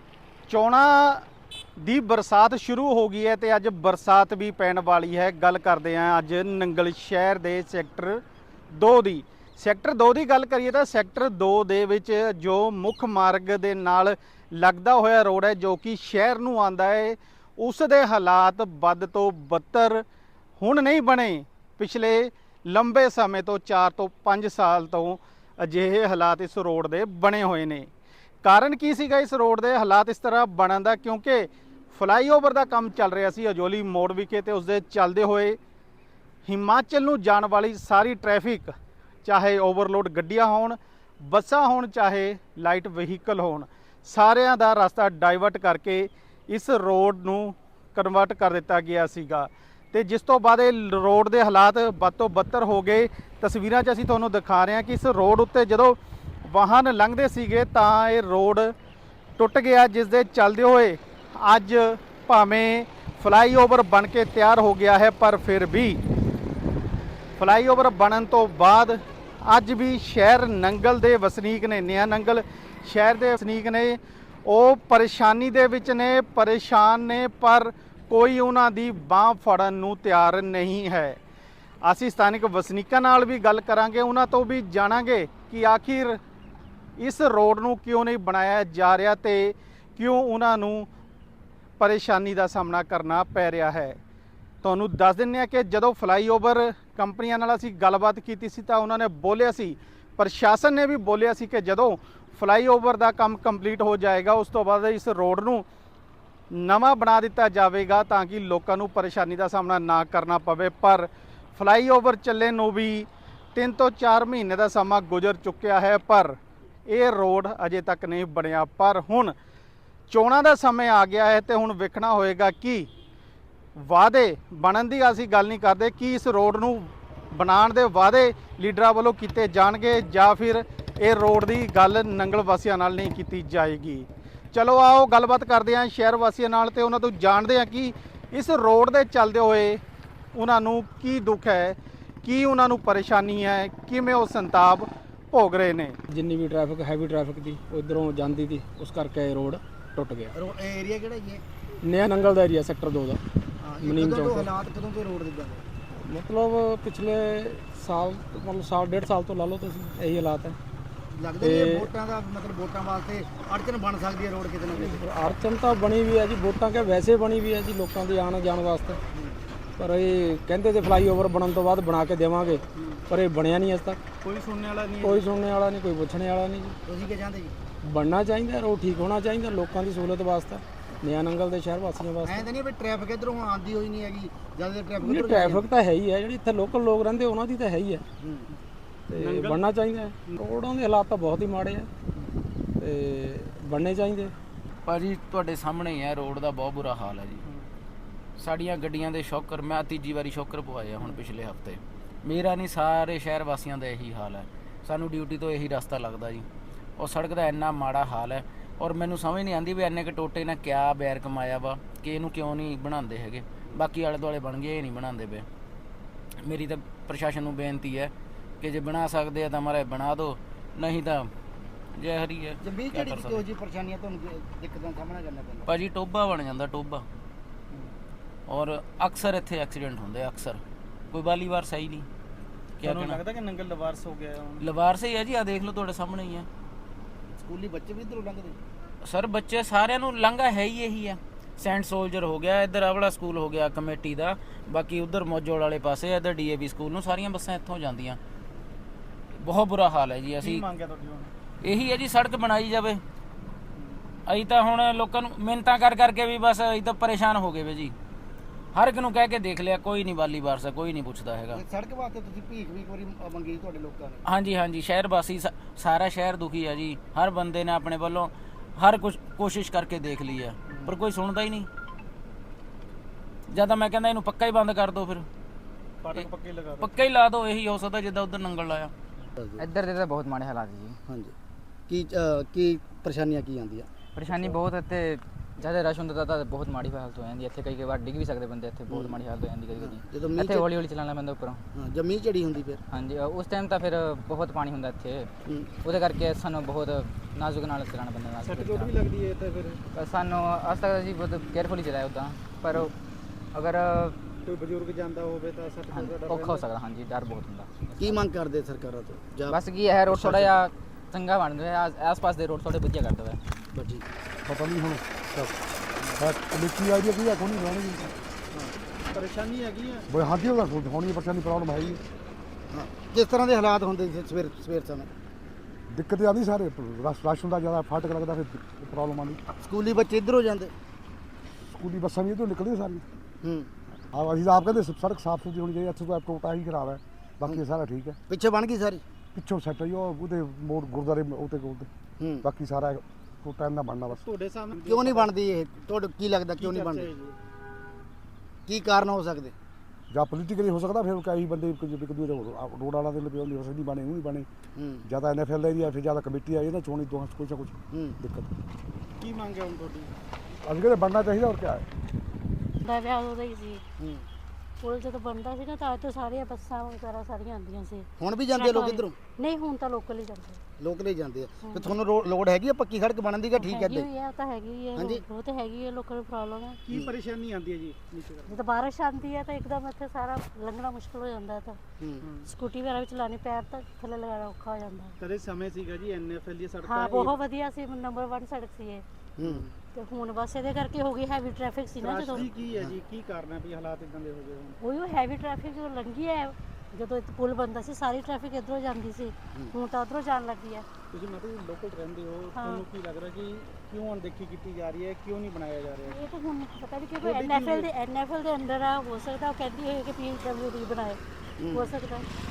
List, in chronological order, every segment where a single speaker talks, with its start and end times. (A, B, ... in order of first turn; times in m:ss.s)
0:00.5-0:20.0 A
0:20.6-0:27.9 A
0:28.4-0:35.6 A
0:36.4-0:58.7 A
0:59.4-1:06.0 A
1:07.4-1:21.2 A
1:21.8-1:26.2 A
1:27.0-1:30.9 A
1:31.8-1:34.0 A
1:34.6-1:45.6 A
1:46.5-1:59.3 A
2:00.1-2:02.9 A
2:03.8-2:19.8 A
2:20.3-2:26.0 A
2:26.1-2:30.3 B
2:30.3-2:31.4 C
2:31.8-2:33.2 B
2:33.6-2:35.6 C
2:33.8-2:34.4 B
2:36.0-2:40.6 B
2:41.1-2:45.3 C
2:41.4-2:41.9 B
2:44.8-2:49.0 B
2:49.1-2:49.4 C
2:49.8-2:54.0 B
2:52.8-2:53.1 A
2:54.2-2:55.2 A
2:55.0-2:56.8 B
2:56.9-2:57.5 C
2:57.9-3:02.4 B
3:02.2-3:05.7 C
3:05.0-3:08.0 B
3:08.2-3:08.5 C
3:09.1-3:11.9 B
3:09.2-3:09.7 A
3:12.8-3:14.3 B
3:14.9-3:17.4 D
3:17.4-3:17.7 A
3:18.4-3:26.5 D
3:27.0-3:35.5 D
3:36.4-3:41.3 D
3:42.0-3:43.4 D
3:42.6-3:45.7 C
3:45.7-3:47.0 D
3:48.5-3:52.1 D
3:52.8-3:53.2 D
3:52.8-3:54.7 A
3:54.6-3:56.5 D
3:57.4-3:58.6 C
3:59.0-4:08.2 D
4:09.4-4:10.6 D
4:10.4-4:11.3 A
4:11.6-4:13.0 D
4:14.3-4:17.9 D
4:18.7-4:21.6 D
4:21.5-4:24.2 C
4:24.2-4:31.7 D
4:30.7-4:31.0 C
4:33.5-4:35.3 D
4:36.0-4:37.0 A
4:36.8-4:38.9 D
4:39.4-4:39.6 C
4:39.6-4:41.0 E
4:41.1-4:41.3 C
4:41.9-4:44.6 C
4:44.1-4:51.6 E
4:48.9-4:49.2 C
4:49.7-4:50.7 C
4:51.8-4:52.8 C
4:52.9-4:55.3 E
4:55.8-4:59.0 E
4:58.4-4:59.8 A
4:59.9-5:02.9 E
5:03.5-5:04.2 E
5:04.4-5:06.7 A
5:05.9-5:08.2 E
5:08.0-5:10.6 C
5:09.5-5:13.4 E
5:13.8-5:14.1 C
5:14.4-5:15.6 F
5:16.2-5:18.1 F
5:19.1-5:20.1 A
5:20.1-5:22.0 F
5:22.7-5:25.1 C
5:25.9-5:29.4 F
5:29.6-5:30.7 C
5:31.7-5:33.1 F
5:33.4-5:33.7 C
5:34.1-5:38.2 F
5:38.3-5:39.0 C
5:39.3-5:41.9 F
5:42.2-5:42.4 C
5:42.4-5:44.2 F
5:44.1-5:45.3 A
5:44.8-5:47.1 C
5:46.6-5:47.4 A
5:48.7-5:49.5 C
5:50.1-5:54.5 F
5:54.8-5:55.1 C
5:55.0-5:58.5 F
5:57.9-5:58.2 C
5:59.2-6:00.1 A
6:00.6-6:01.8 F
6:02.8-6:03.8 G
6:04.0-6:04.3 C
6:04.8-6:10.6 G
6:08.2-6:09.2 C
6:10.8-6:14.1 C
6:11.6-6:11.9 G
6:13.6-6:16.8 G
6:15.0-6:15.2 C
6:16.8-6:18.6 A
6:18.5-6:21.8 G
6:22.0-6:22.2 C
6:22.2-6:22.5 A
6:22.4-6:25.2 G
6:25.2-6:27.4 A
6:26.8-6:29.0 G
6:29.4-6:29.7 C
6:29.9-6:32.4 G
6:32.0-6:34.8 A
6:32.6-6:32.9 C
6:34.8-6:40.8 G
6:41.1-6:46.2 A
6:42.5-6:42.8 G
6:46.1-6:52.3 G
6:47.2-6:47.9 A
6:51.6-6:51.9 C